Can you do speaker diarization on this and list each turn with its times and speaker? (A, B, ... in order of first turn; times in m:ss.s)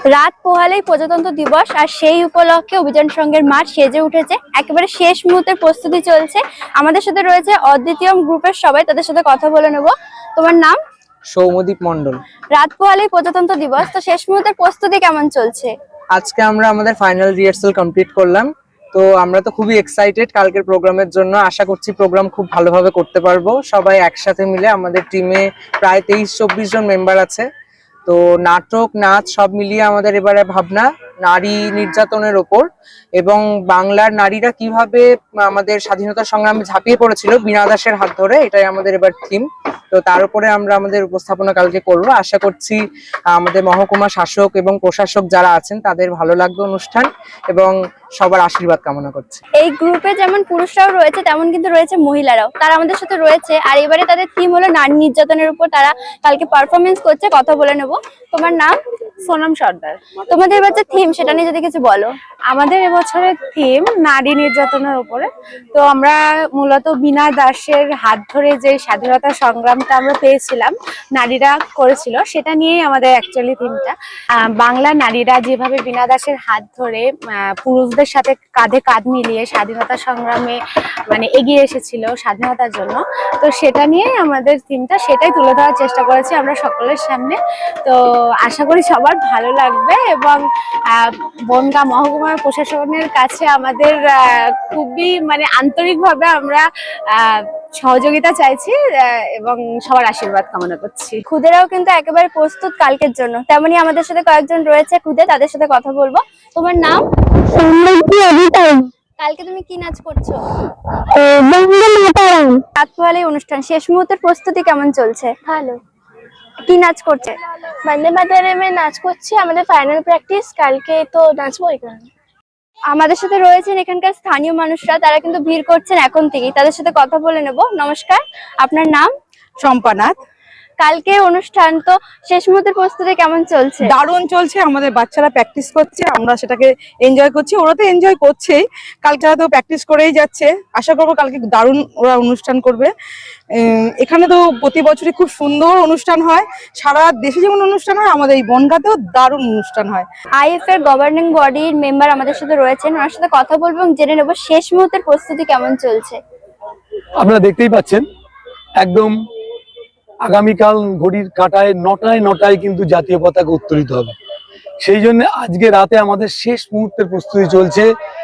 0:00.1-0:10.8 A
0:11.3-0:12.2 B
0:12.5-0:15.7 A
0:16.1-0:27.4 B
0:28.1-0:32.6 B
0:33.2-0:49.4 B
0:49.6-0:58.7 A
0:59.2-1:00.0 C
1:00.3-1:02.1 A
1:02.5-1:13.9 C
1:14.6-1:41.2 C
1:41.2-1:50.4 A
1:51.2-1:55.3 A
1:55.4-1:55.8 D
1:56.7-1:57.3 A
1:57.8-2:02.1 D
2:02.9-2:09.1 A
2:09.6-2:10.1 E
2:10.8-2:13.9 A
2:13.8-2:22.9 E
2:24.0-2:30.1 E
2:30.4-2:36.2 A
2:37.2-2:38.0 F
2:38.8-2:39.1 F
2:40.3-2:44.1 F
2:44.8-2:47.9 F